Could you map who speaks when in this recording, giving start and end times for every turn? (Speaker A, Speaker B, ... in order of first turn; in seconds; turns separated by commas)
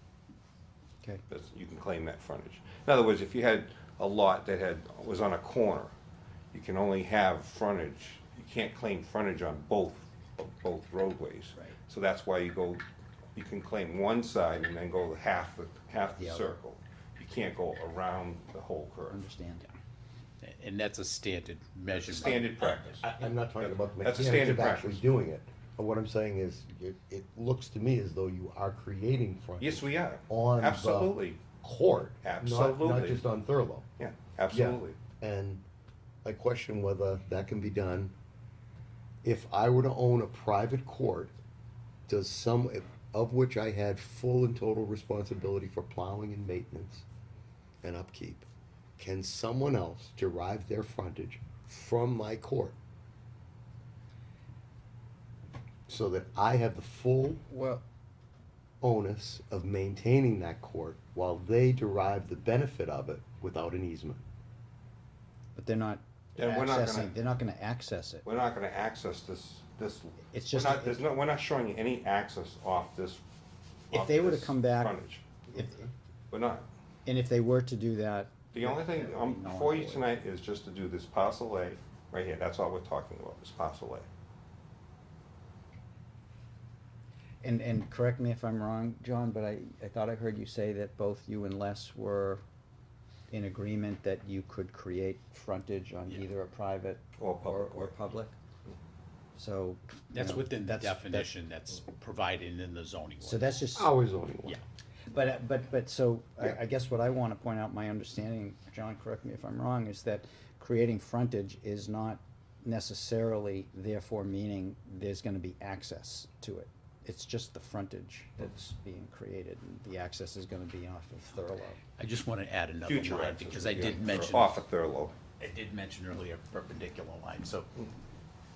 Speaker A: 1.3-5.9, Speaker A: 6.5-12.8, Speaker A: 13.3-19.2, Speaker B: 16.1-16.5, Speaker B: 19.1-19.7, Speaker C: 20.4-23.1, Speaker A: 21.9-23.1, Speaker D: 22.9-33.9, Speaker A: 23.6-25.0, Speaker A: 29.6-31.4, Speaker A: 32.2-33.3, Speaker A: 34.0-35.0, Speaker D: 34.5-35.6, Speaker D: 36.2-38.1, Speaker D: 39.2-41.3, Speaker D: 42.1-47.1, Speaker D: 47.8-52.8, Speaker D: 55.9-57.5, Speaker D: 58.8-64.2, Speaker B: 65.5-68.3, Speaker A: 66.4-67.2, Speaker A: 68.2-73.2, Speaker B: 70.2-71.1, Speaker A: 73.9-75.4, Speaker B: 73.9-75.9, Speaker A: 76.3-76.7, Speaker B: 77.1-80.1, Speaker A: 78.5-84.1, Speaker B: 87.4-92.4, Speaker B: 93.3-98.3, Speaker A: 97.2-98.0, Speaker B: 99.4-101.3, Speaker C: 100.1-103.6, Speaker B: 103.2-103.9, Speaker D: 103.8-104.6, Speaker B: 105.1-121.8, Speaker C: 122.0-124.6, Speaker A: 122.9-125.2, Speaker C: 125.4-127.8